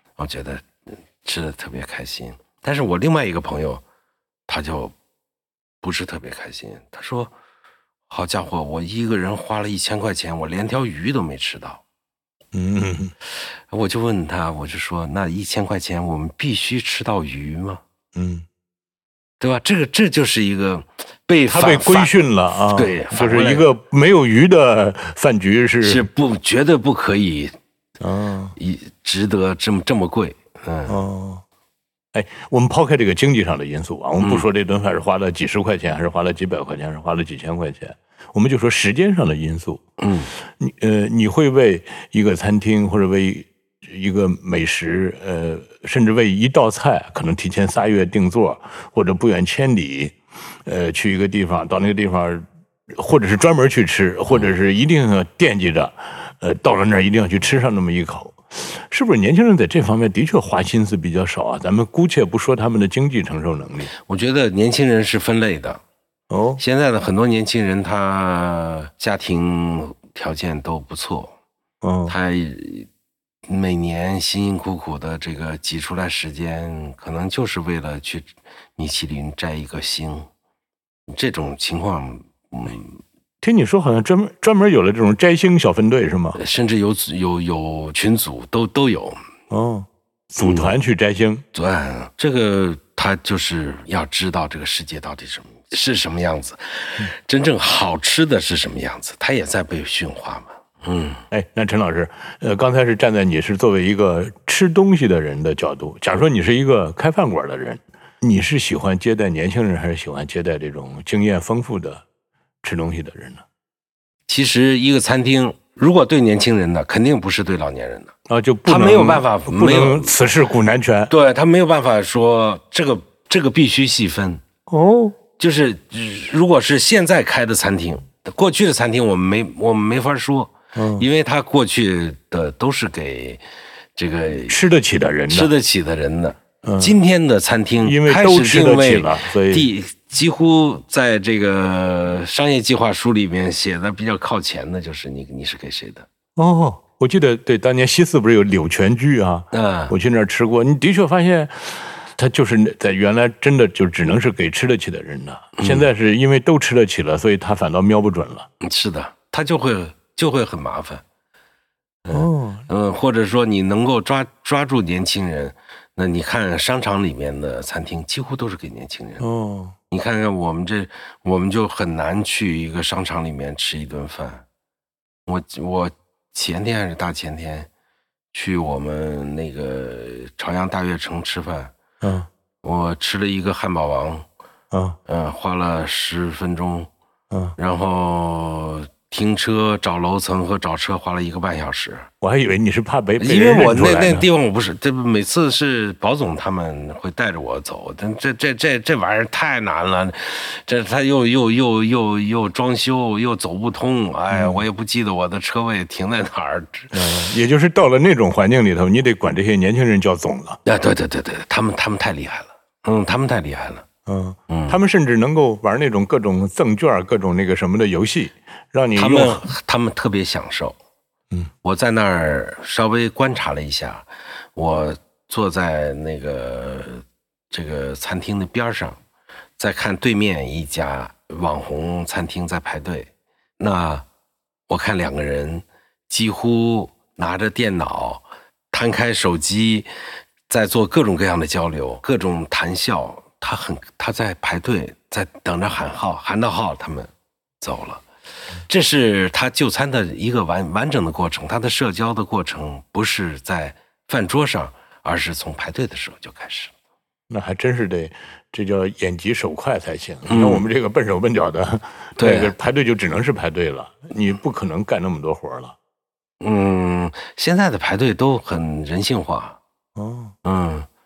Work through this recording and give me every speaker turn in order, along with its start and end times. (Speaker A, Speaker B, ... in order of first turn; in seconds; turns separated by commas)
Speaker A: 0.2-0.7, Speaker A: 1.2-3.8, Speaker A: 4.5-4.9, Speaker A: 5.8-7.3, Speaker A: 8.1-11.8, Speaker B: 12.5-13.1, Speaker A: 13.7-17.8, Speaker B: 18.1-18.5, Speaker A: 19.4-22.1, Speaker B: 21.5-26.1, Speaker A: 22.7-23.7, Speaker A: 25.8-27.6, Speaker B: 28.0-28.6, Speaker A: 28.6-31.0, Speaker B: 30.9-31.4, Speaker B: 32.1-39.8, Speaker A: 34.2-34.5, Speaker A: 40.0-40.3, Speaker B: 40.5-63.9, Speaker A: 64.1-65.8, Speaker B: 66.3-66.6, Speaker A: 66.6-71.3, Speaker B: 71.8-72.2, Speaker A: 72.1-72.9, Speaker A: 73.5-80.3, Speaker A: 81.1-83.0, Speaker B: 83.4-86.4, Speaker A: 86.3-89.2, Speaker B: 89.5-91.4, Speaker A: 90.4-90.8, Speaker A: 91.5-101.2, Speaker B: 101.3-112.0, Speaker B: 112.6-113.4, Speaker A: 114.3-118.1, Speaker B: 118.3-121.1, Speaker A: 118.7-120.2, Speaker A: 121.1-124.4, Speaker B: 124.7-125.2, Speaker A: 125.4-133.4, Speaker B: 130.8-131.1, Speaker A: 134.0-134.6, Speaker B: 134.5-135.5, Speaker A: 135.3-146.1, Speaker B: 136.6-137.0, Speaker B: 137.8-139.7, Speaker B: 146.4-158.5, Speaker A: 149.5-149.9, Speaker A: 155.6-155.9, Speaker A: 158.6-161.0, Speaker A: 162.0-169.3, Speaker B: 162.1-162.7, Speaker B: 169.2-169.7, Speaker A: 169.9-174.4, Speaker A: 175.3-177.7, Speaker A: 178.3-181.8, Speaker B: 182.0-182.3, Speaker A: 182.6-184.3, Speaker B: 184.7-185.0, Speaker A: 185.1-186.9, Speaker A: 187.6-192.1, Speaker B: 192.2-194.3, Speaker A: 193.2-207.3, Speaker B: 204.3-204.6, Speaker B: 206.9-210.6, Speaker A: 210.7-213.9, Speaker B: 214.1-219.4, Speaker A: 214.5-214.8, Speaker A: 218.9-220.8, Speaker A: 221.6-229.0, Speaker A: 229.6-234.1, Speaker A: 234.7-239.9, Speaker A: 240.5-248.0, Speaker A: 248.7-256.7, Speaker B: 257.3-265.8, Speaker A: 260.3-260.6, Speaker A: 262.2-262.5, Speaker A: 266.4-269.6, Speaker B: 270.0-270.3, Speaker A: 270.4-270.9